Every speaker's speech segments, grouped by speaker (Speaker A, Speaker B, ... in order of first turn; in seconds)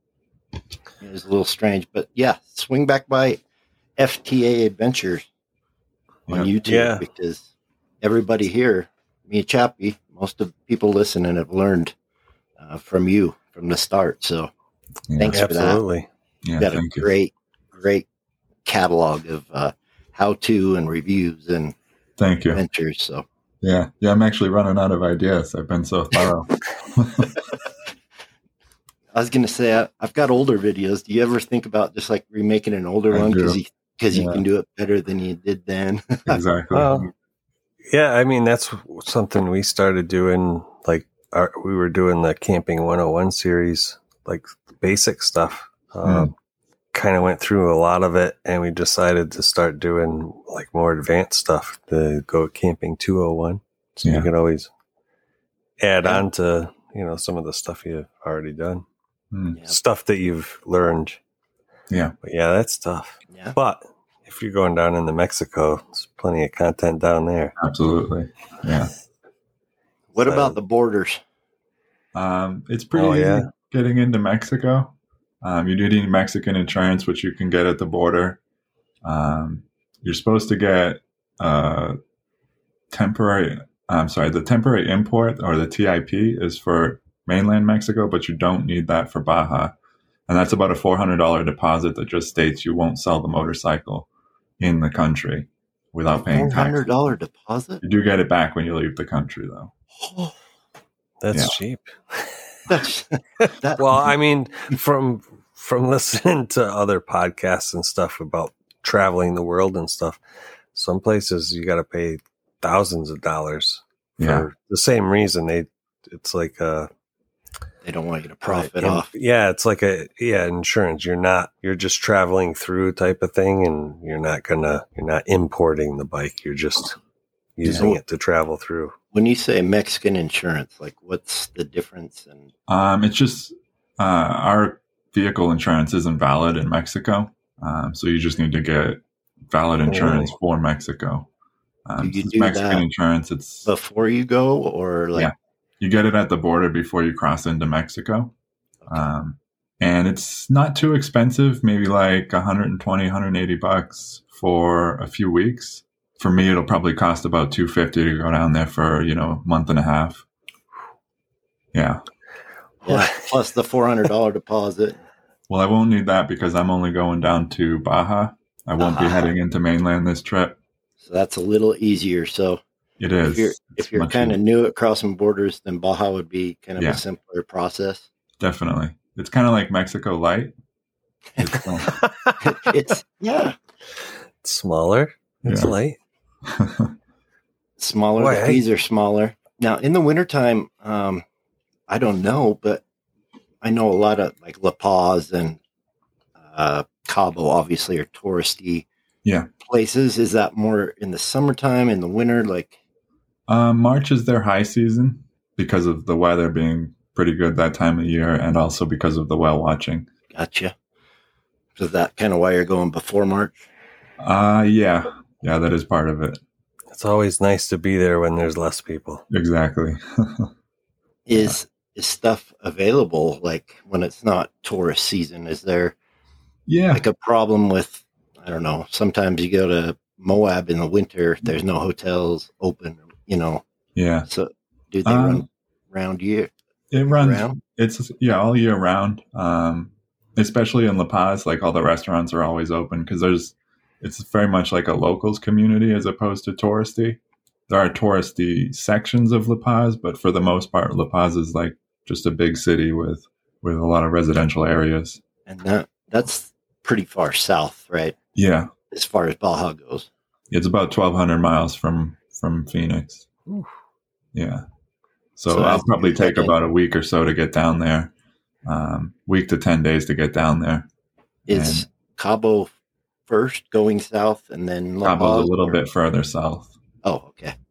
Speaker A: 1.0-3.4, 4.0-5.3, 6.3-7.4, 8.0-11.9, 12.6-14.5, 15.2-15.8, 16.6-18.1, 18.6-21.8, 22.5-23.2, 29.1-36.4, 70.1-71.2, 96.3-97.8, 100.0-100.3, 102.7-103.9, 117.8-119.1, 127.7-128.0, 129.1-132.5, 142.0-142.8, 143.7-145.3, 162.8-165.0, 168.8-169.3, 171.0-172.6, 173.2-178.1, 182.4-183.6, 187.8-191.2, 191.9-192.8, 193.6-195.6, 196.5-198.9, 199.6-202.8, 210.3-210.7, 211.8-213.7, 221.3-225.9, 226.9-233.6, 234.3-236.5, 237.1-237.6, 255.5-258.1, 258.9-260.1, 265.5-266.5, 271.5-272.7, 273.3-275.8, 277.0-277.5
Speaker B: 6.7-7.0, 15.3-16.1, 36.7-37.1, 37.9-46.3, 46.9-54.7, 55.8-58.9, 59.6-61.2, 62.2-67.5, 70.2-70.6, 72.9-73.5, 101.2-102.7, 103.4-110.2, 110.7-116.9, 118.5-127.0, 127.6-128.9, 139.9-140.3, 162.9-163.2, 181.8-182.6, 184.4-186.0, 188.2-188.7, 216.9-219.2, 263.5-263.7
Speaker C: 15.1-15.4, 16.4-17.1, 22.2-22.6, 23.6-27.4, 33.1-33.6, 34.1-34.4, 36.3-37.1, 46.0-46.3, 54.0-54.3, 59.3-59.6, 61.9-62.1, 67.6-68.9, 72.1-78.4, 79.0-82.0, 82.9-89.7, 90.3-94.1, 94.6-96.9, 97.8-99.7, 114.2-114.5, 132.7-141.3, 141.9-143.7, 145.2-148.3, 148.9-160.2, 161.7-162.0, 165.5-170.6, 173.0-174.4, 178.4-180.5, 181.4-182.0, 185.4-185.7, 186.4-186.9, 199.2-199.5, 203.5-210.1, 214.2-216.4, 219.3-220.5, 226.7-227.0, 233.9-234.3, 235.1-235.4, 236.9-255.2, 258.4-258.7, 260.5-263.3, 264.3-264.6, 265.4-268.1, 268.7-270.9, 271.5-271.9, 275.0-276.7